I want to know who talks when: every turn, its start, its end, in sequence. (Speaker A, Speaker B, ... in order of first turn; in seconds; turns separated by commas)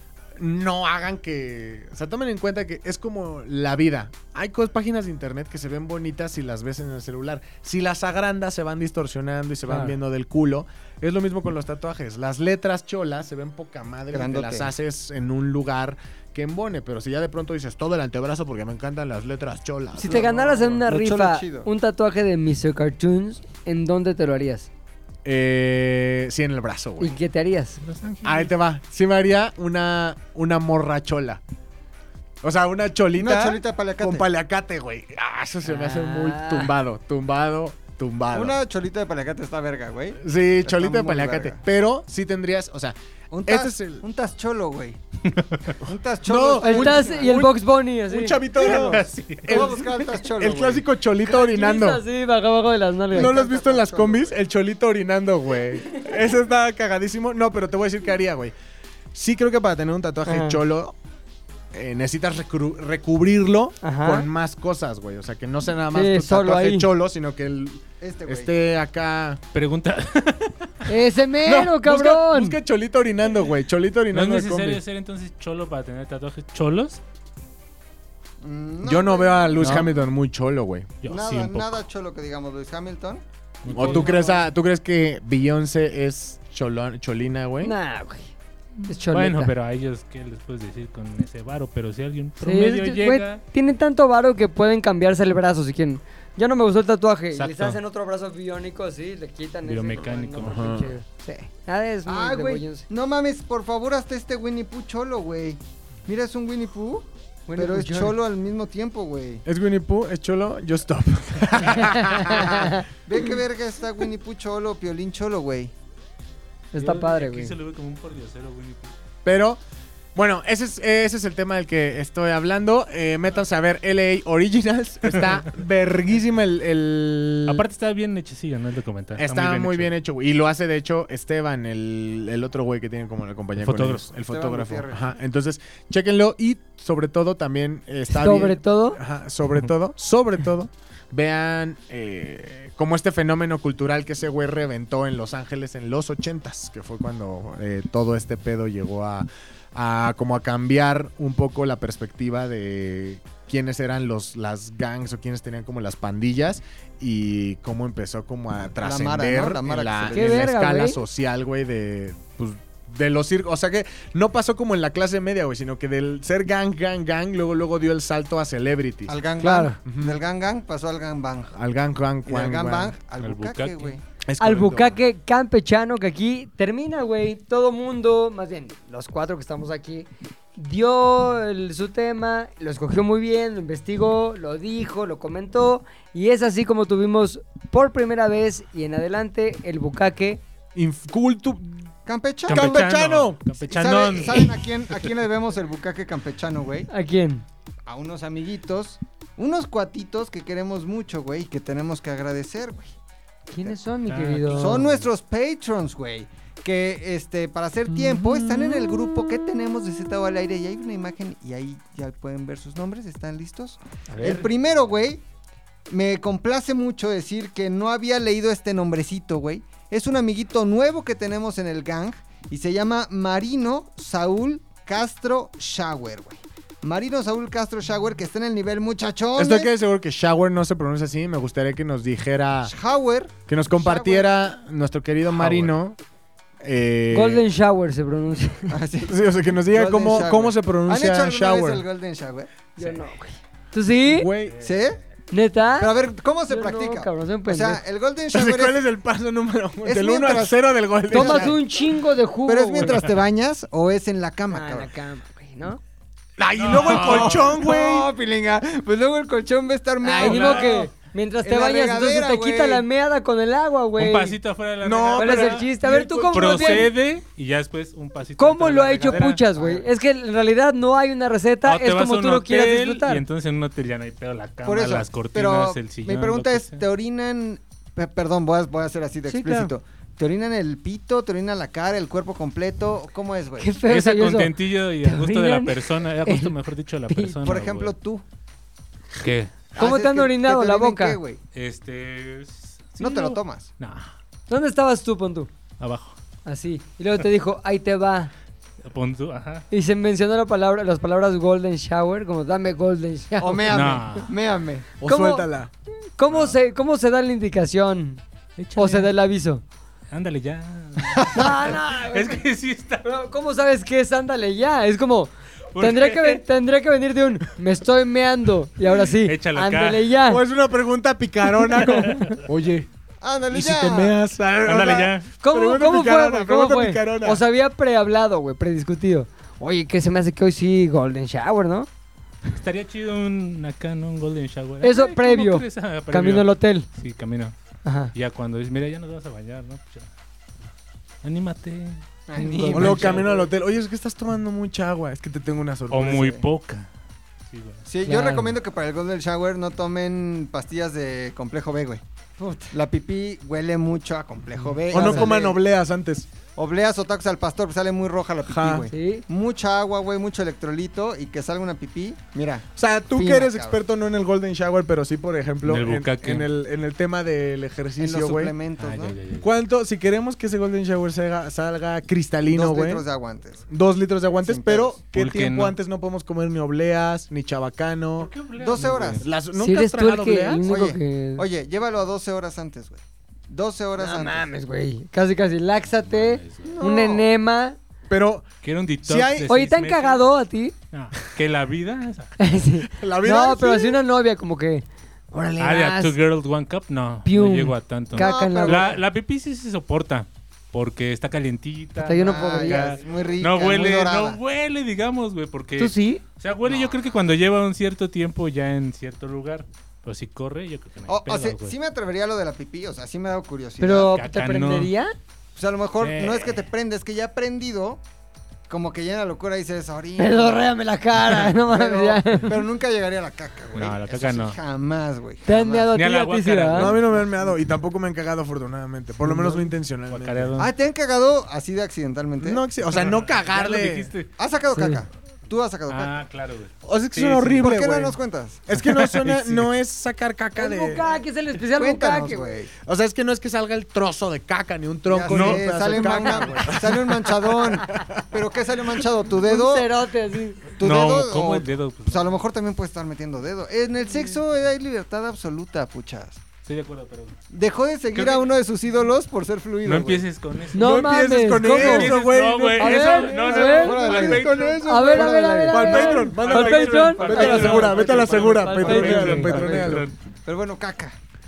Speaker A: 0.4-20.3, Speaker B: 14.1-14.7, Speaker C: 19.9-24.7, Speaker B: 20.0-21.7, Speaker A: 25.2-27.1, Speaker C: 27.0-27.8, Speaker D: 27.8-28.5, Speaker A: 28.2-31.4, Speaker A: 32.4-38.5, Speaker B: 33.1-34.3, Speaker C: 35.6-36.7, Speaker B: 38.3-41.6, Speaker A: 40.2-42.9, Speaker B: 43.3-45.0, Speaker A: 43.5-44.0, Speaker D: 45.3-45.8, Speaker B: 45.8-47.4, Speaker A: 46.2-52.0, Speaker C: 46.6-48.4, Speaker B: 48.6-50.9, Speaker D: 48.6-49.7, Speaker C: 51.2-53.4, Speaker A: 53.1-58.5, Speaker B: 53.1-54.3, Speaker A: 59.1-60.9, Speaker C: 60.2-60.6, Speaker A: 61.7-69.4, Speaker C: 63.8-64.3, Speaker C: 65.9-66.9, Speaker B: 68.0-68.5, Speaker D: 69.5-70.8, Speaker C: 70.9-72.6, Speaker A: 71.4-74.8, Speaker D: 74.1-77.0, Speaker B: 78.4-80.0, Speaker A: 78.8-80.9, Speaker D: 79.6-79.9, Speaker D: 81.0-81.8, Speaker B: 81.0-84.4, Speaker D: 83.6-84.2, Speaker A: 83.7-87.7, Speaker C: 87.6-88.3, Speaker D: 88.8-93.4, Speaker C: 88.9-89.5, Speaker C: 92.4-102.9, Speaker D: 97.3-97.8, Speaker D: 99.7-100.9, Speaker A: 100.4-100.9, Speaker B: 102.0-109.4, Speaker C: 107.5-108.2, Speaker A: 109.5-112.7, Speaker C: 111.7-112.8, Speaker B: 112.3-115.7, Speaker C: 116.7-117.5, Speaker D: 116.8-118.9, Speaker A: 119.2-119.6, Speaker A: 120.1-127.6, Speaker D: 125.0-125.3, Speaker D: 127.5-129.9, Speaker A: 129.2-169.2, Speaker D: 133.6-134.1, Speaker B: 134.3-135.1, Speaker C: 138.1-139.0, Speaker B: 158.8-160.4, Speaker C: 160.1-161.0, Speaker B: 169.1-171.5, Speaker C: 169.4-169.8, Speaker A: 169.8-170.2, Speaker A: 171.5-172.9, Speaker B: 172.2-174.0, Speaker D: 173.2-174.0, Speaker A: 174.2-175.0, Speaker C: 174.4-190.4, Speaker A: 190.7-191.7, Speaker B: 192.1-192.9, Speaker D: 192.4-195.1, Speaker A: 192.5-193.4, Speaker B: 193.6-196.9, Speaker C: 196.9-197.4, Speaker B: 197.9-202.9, Speaker C: 203.5-204.8, Speaker D: 204.1-205.0, Speaker B: 204.5-215.2, Speaker C: 214.1-214.5, Speaker B: 215.9-229.7, Speaker A: 229.4-232.7, Speaker B: 232.6-234.3, Speaker A: 233.5-236.0, Speaker D: 235.3-235.7, Speaker A: 236.6-237.4, Speaker C: 237.1-238.7, Speaker B: 238.7-242.5, Speaker A: 239.1-241.8, Speaker C: 242.8-244.3, Speaker A: 244.0-244.7, Speaker B: 244.6-245.0, Speaker C: 245.3-245.9, Speaker B: 245.8-248.8, Speaker C: 246.5-247.8, Speaker A: 248.3-251.6, Speaker B: 249.8-250.6, Speaker B: 251.1-251.8, Speaker C: 251.1-253.0, Speaker B: 252.4-254.9, Speaker C: 254.5-255.8, Speaker A: 256.4-258.1, Speaker D: 256.6-257.5, Speaker B: 256.7-260.9, Speaker A: 260.0-260.6, Speaker C: 260.1-264.4, Speaker D: 260.2-260.7, Speaker B: 261.4-262.9, Speaker D: 264.0-265.7, Speaker A: 264.8-266.9, Speaker C: 265.1-266.9, Speaker D: 266.3-269.4, Speaker C: 268.4-273.2, Speaker B: 269.5-269.9, Speaker D: 271.6-276.8, Speaker B: 274.6-283.7, Speaker C: 279.3-279.7, Speaker C: 283.6-286.5, Speaker D: 283.9-287.9, Speaker C: 287.1-287.4, Speaker B: 287.4-288.2, Speaker D: 289.2-289.5, Speaker B: 289.7-291.4, Speaker C: 289.8-291.2, Speaker D: 291.5-294.1, Speaker B: 293.0-293.7, Speaker C: 294.5-295.5, Speaker D: 295.8-296.1, Speaker C: 296.4-298.3, Speaker D: 298.8-299.6, Speaker C: 299.7-303.8, Speaker B: 303.4-304.9, Speaker D: 303.7-304.3, Speaker A: 305.0-305.7, Speaker C: 305.0-305.5, Speaker C: 306.2-308.2, Speaker D: 306.3-306.5, Speaker D: 308.6-309.1, Speaker C: 308.8-309.6, Speaker D: 310.1-313.1, Speaker B: 311.1-311.5, Speaker C: 311.2-312.4, Speaker C: 313.0-320.4, Speaker D: 315.7-316.4, Speaker D: 318.9-320.1, Speaker A: 320.2-322.9, Speaker D: 321.8-322.4, Speaker B: 323.2-324.1, Speaker A: 323.5-327.4, Speaker D: 324.6-325.3, Speaker C: 325.4-331.9, Speaker D: 332.5-337.5, Speaker C: 334.8-336.9, Speaker C: 337.8-338.1, Speaker D: 338.1-340.1, Speaker D: 341.2-342.0, Speaker B: 342.3-343.5, Speaker C: 342.3-343.2, Speaker D: 342.6-343.3, Speaker A: 342.7-346.4, Speaker D: 345.9-346.9, Speaker B: 346.1-346.4, Speaker D: 347.5-347.9, Speaker B: 347.9-352.0, Speaker C: 348.0-348.6, Speaker C: 352.4-352.8, Speaker B: 352.7-355.6, Speaker A: 354.9-356.3, Speaker C: 354.9-355.3, Speaker B: 356.6-363.8, Speaker A: 358.4-358.9, Speaker C: 358.9-359.2, Speaker A: 362.8-368.5, Speaker D: 365.6-366.5, Speaker B: 368.0-369.2, Speaker D: 368.8-369.5, Speaker A: 369.4-373.0, Speaker B: 372.5-373.7, Speaker A: 373.7-378.3, Speaker B: 374.4-375.0, Speaker D: 375.1-375.8, Speaker D: 378.2-379.3, Speaker B: 378.6-379.2, Speaker A: 379.2-380.6, Speaker C: 379.6-381.4, Speaker B: 380.6-384.4, Speaker C: 383.9-387.8, Speaker D: 386.1-386.8, Speaker A: 386.6-387.3, Speaker A: 388.1-388.5, Speaker D: 388.6-390.2, Speaker A: 389.0-389.5, Speaker C: 389.5-390.7, Speaker D: 390.9-392.7, Speaker C: 392.4-396.1, Speaker A: 393.0-394.0, Speaker D: 395.6-411.8, Speaker C: 397.2-399.0, Speaker B: 398.1-399.0, Speaker C: 402.0-403.0, Speaker B: 402.2-404.4, Speaker C: 405.8-406.2, Speaker B: 406.6-407.2, Speaker B: 411.1-414.1, Speaker C: 413.8-415.1, Speaker D: 414.0-414.9, Speaker B: 415.5-418.0, Speaker D: 416.0-416.7, Speaker B: 418.7-420.7, Speaker C: 420.2-422.6, Speaker B: 421.2-425.9, Speaker D: 423.7-424.6, Speaker C: 425.4-427.0, Speaker D: 425.9-427.1, Speaker A: 426.7-430.6, Speaker B: 427.1-427.5, Speaker D: 430.1-430.7, Speaker B: 430.6-432.6, Speaker A: 432.4-434.1, Speaker D: 432.8-434.3, Speaker B: 434.4-436.2, Speaker C: 434.7-435.0, Speaker D: 435.9-437.6, Speaker A: 436.8-441.2, Speaker B: 437.5-438.6, Speaker D: 438.7-439.7, Speaker C: 440.6-442.5, Speaker B: 441.8-442.7, Speaker A: 442.8-448.2, Speaker B: 445.1-449.9, Speaker D: 445.3-446.5, Speaker C: 449.4-450.7, Speaker B: 450.8-456.4, Speaker D: 450.8-452.4, Speaker D: 456.6-457.4, Speaker B: 457.5-460.2, Speaker D: 458.1-458.4, Speaker D: 459.8-464.8, Speaker C: 460.7-462.1, Speaker A: 460.8-470.1, Speaker C: 462.8-464.2, Speaker B: 463.2-466.2, Speaker C: 464.8-469.9, Speaker D: 465.8-470.1, Speaker B: 467.2-467.9, Speaker B: 468.9-469.8, Speaker B: 470.4-471.2